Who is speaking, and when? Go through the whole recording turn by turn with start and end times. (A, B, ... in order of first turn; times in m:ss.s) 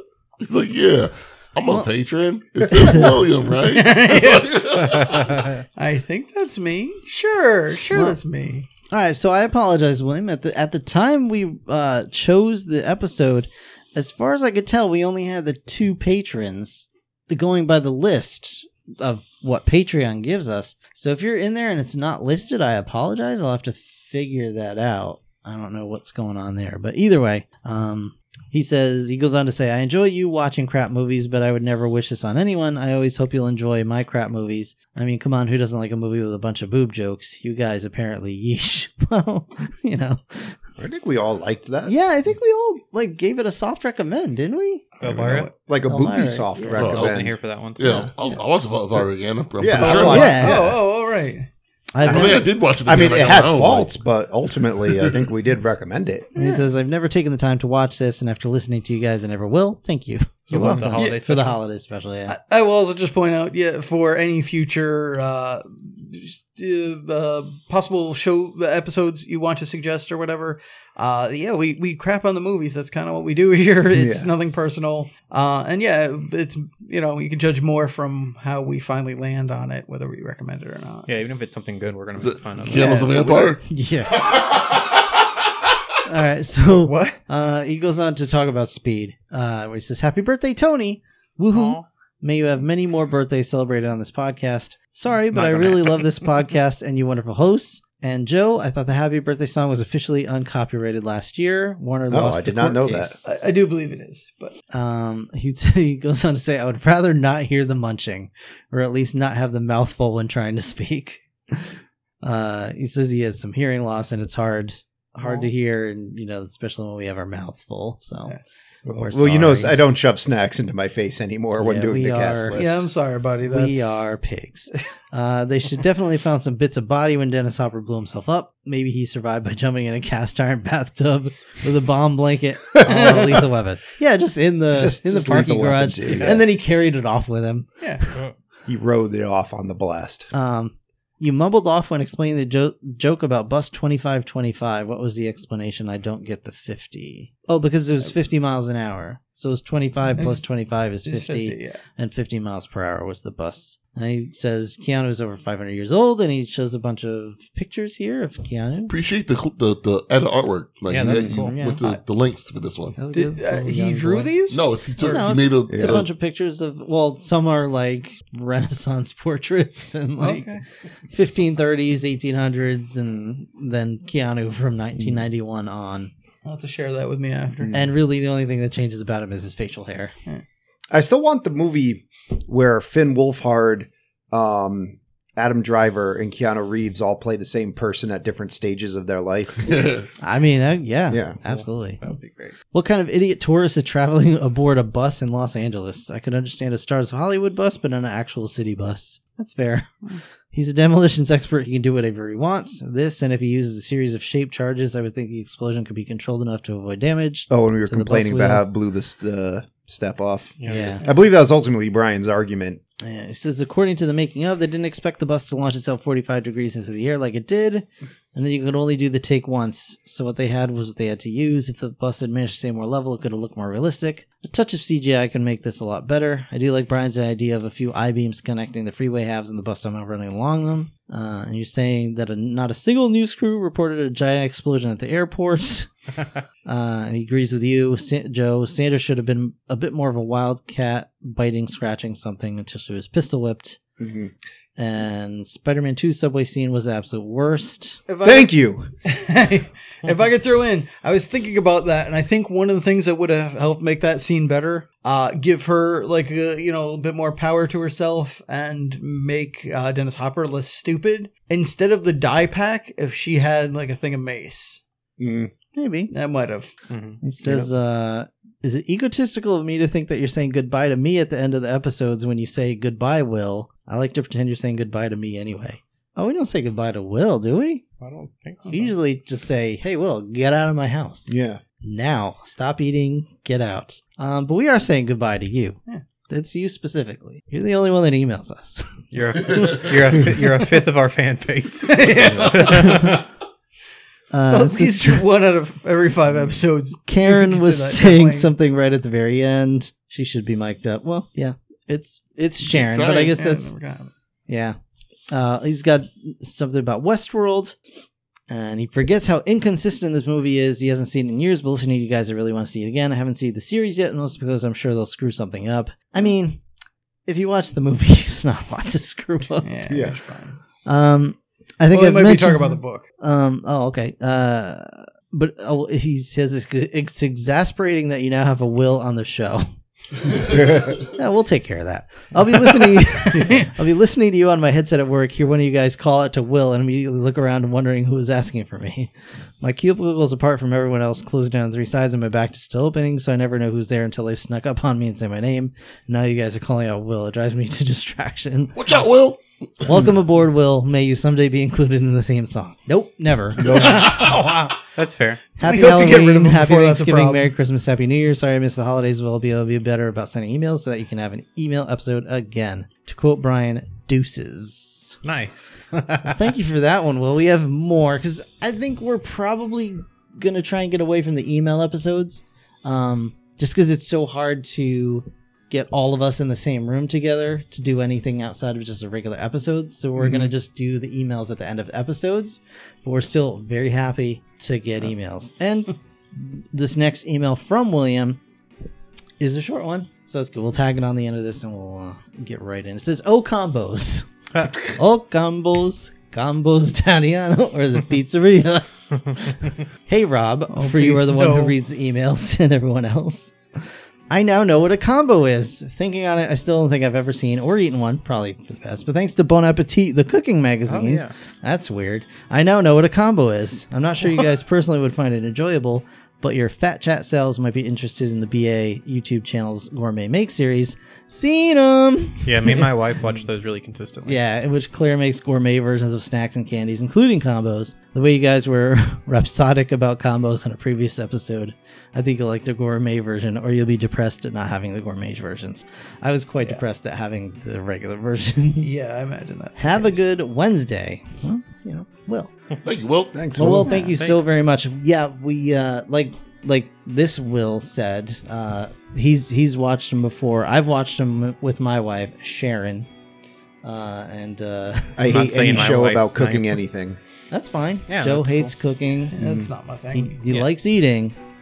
0:00.4-0:05.4 A
0:02.6-0:03.3 B
0:03.7-0:04.8 C
0:04.8-0:05.6 D
0:05.8-0:08.7 C
0:07.9-0:08.2 B
0:08.9-0:40.6 B
0:40.8-0:41.9 E
0:41.8-0:45.0 B
0:45.0-0:45.5 D
0:45.7-0:48.1 E
0:45.8-0:46.8 B
0:46.8-0:50.3 A
0:46.8-0:47.9 D
0:48.2-0:48.7 C
0:49.6-0:50.8 E
0:49.8-0:51.5 C
0:49.8-0:50.7 B
0:51.9-0:52.5 B
0:52.0-0:54.0 A
0:52.0-0:56.3 E
0:56.3-0:56.7 C
0:56.4-1:02.3 B
1:00.5-1:01.6 D
1:00.6-1:00.8 E
1:00.9-1:01.2 C
1:02.3-1:21.1 C
1:13.9-1:14.3 E
1:21.0-1:23.1 D
1:22.2-1:23.6 A
1:22.7-1:24.5 B
1:26.0-1:43.4 B
1:26.7-1:27.2 C
1:31.5-1:31.8 D
1:35.3-1:36.1 D
1:42.1-1:43.2 E
1:43.2-1:44.5 C
1:44.7-1:51.6 B
1:52.2-1:58.3 B
1:55.2-1:55.5 C
1:58.8-2:02.9 E
1:59.0-1:59.8 B
2:01.6-2:02.6 B
2:02.5-2:04.0 C
2:03.4-2:17.7 B
2:12.8-2:13.3 E
2:12.8-2:13.5 C
2:14.7-2:16.5 E
2:16.1-2:16.4 D
2:17.8-2:18.1 C
2:18.7-2:20.3 E
2:20.3-2:38.9 B
2:31.0-2:31.8 C
2:38.9-2:43.0 A
2:40.9-2:41.6 D
2:41.0-2:42.0 B
2:42.9-2:44.3 B
2:43.1-2:45.3 C
2:44.5-2:46.1 A
2:45.0-2:56.1 B
2:45.7-2:46.0 E
2:50.2-2:50.6 C
2:56.4-2:57.8 C
2:57.6-2:57.9 E
2:57.7-3:00.1 B
3:00.9-3:09.8 E
3:09.7-3:10.1 A
3:10.2-3:12.0 B
3:11.1-3:11.4 E
3:11.4-3:12.6 D
3:12.7-3:28.6 B
3:27.5-3:32.8 E
3:30.6-3:31.0 D
3:30.6-3:31.0 B
3:33.0-3:55.9 B
3:56.6-4:03.8 B
4:04.0-4:04.3 E
4:04.8-4:08.0 B
4:08.1-4:08.5 C
4:08.2-4:08.9 E
4:09.0-4:24.8 C
4:25.2-4:25.5 E
4:25.7-4:26.1 B
4:26.1-4:26.7 C
4:26.9-4:27.2 D
4:27.2-4:37.9 B
4:27.4-4:27.7 E
4:38.0-4:38.9 D
4:38.7-4:49.0 B
4:41.3-4:41.6 E
4:49.1-4:53.2 D
4:51.9-4:53.1 C
4:54.3-4:55.2 B
4:54.4-4:58.5 C
4:57.1-5:03.7 B
5:02.7-5:03.4 A
5:03.0-5:04.1 C
5:04.5-5:04.8 B
5:05.3-5:07.8 B
5:08.5-5:16.6 B
5:17.3-5:19.7 B
5:19.6-5:20.6 C
5:19.9-5:20.2 E
5:20.8-5:29.7 B
5:21.9-5:23.1 C
5:30.4-5:31.0 E
5:31.1-5:48.8 B
5:33.3-5:33.7 C
5:48.7-5:50.0 A
5:49.8-5:54.6 B
5:53.6-5:54.0 E
5:53.7-5:55.4 D
5:55.6-6:05.2 B
5:55.6-5:57.5 C
6:05.2-6:06.4 D
6:06.2-6:28.4 B
6:29.4-7:03.2 B
6:34.5-6:34.8 D
6:40.7-6:41.7 C
6:50.9-6:51.3 D
7:02.4-7:04.4 D
7:04.2-7:18.9 B
7:18.8-7:20.2 C
7:19.8-7:22.5 B
7:22.8-7:23.4 A
7:23.3-7:24.0 E
7:23.5-7:33.1 B
7:23.8-7:24.5 D
7:33.8-7:35.9 B
7:35.2-7:37.2 E
7:35.2-7:36.8 D
7:37.5-7:39.4 B
7:38.1-7:38.7 D
7:39.3-7:40.4 C
7:39.4-7:39.7 E
7:40.1-7:41.3 B